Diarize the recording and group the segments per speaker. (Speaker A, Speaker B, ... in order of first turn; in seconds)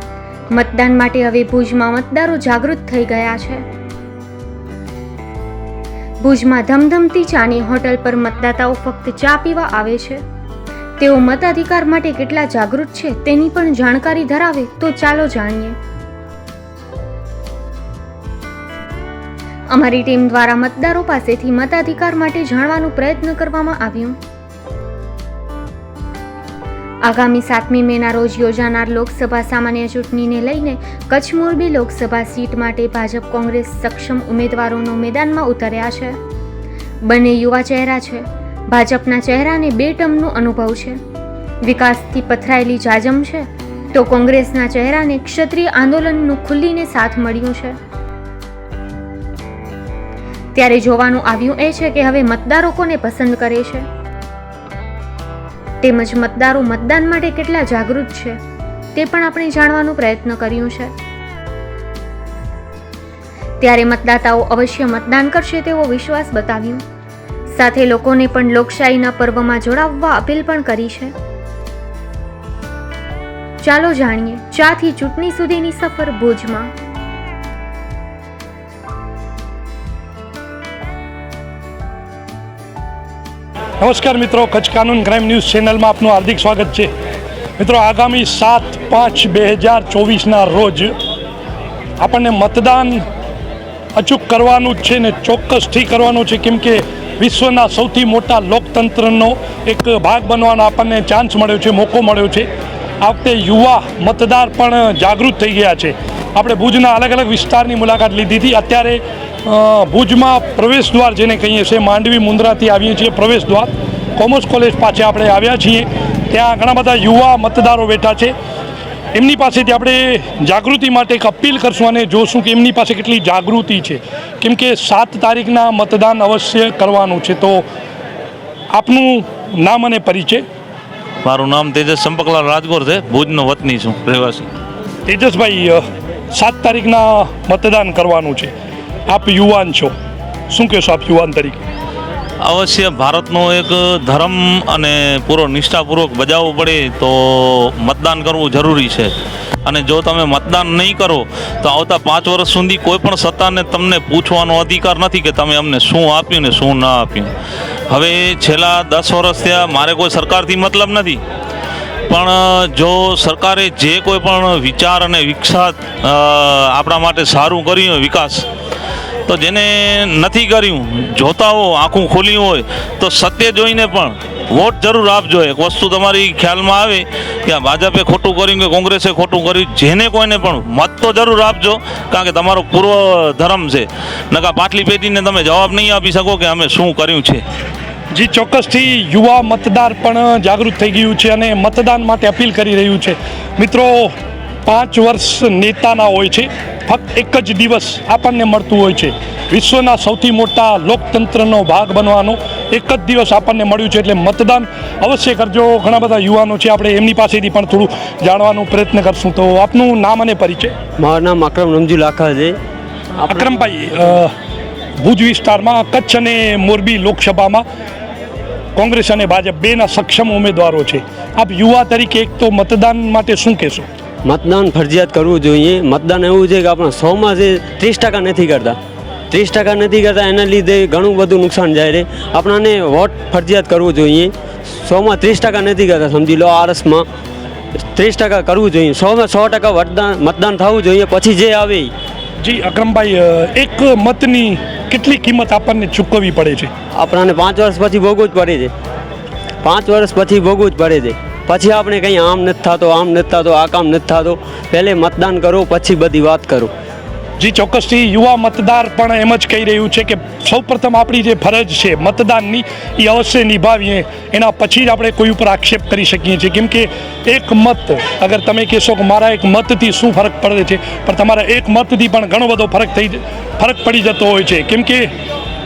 Speaker A: 0.5-3.6, 6.2-10.2, 11.0-15.8, 19.7-24.2, 27.0-36.2, 37.0-41.0, 41.6-47.8, 50.5-53.9, 55.8-58.4, 59.0-60.9, 63.6-66.8, 67.5-71.1, 73.6-76.7
Speaker B: 83.8-86.9, 87.6-90.9, 92.0-93.0, 94.0-102.5, 103.0-118.3, 119.1-127.7, 128.7-130.4, 135.1-138.5, 139.1-139.9, 140.5-141.6, 188.1-194.1, 194.7-210.7, 213.2-214.3, 215.0-217.6, 218.8-223.9, 242.4-246.7, 257.4-275.1
Speaker C: 131.2-134.5, 142.4-149.1, 149.6-157.3, 157.9-161.2, 162.1-168.4, 169.3-187.4
Speaker D: 211.0-212.6, 224.2-228.8, 229.3-237.1, 237.8-241.9, 246.9-248.7, 249.6-256.7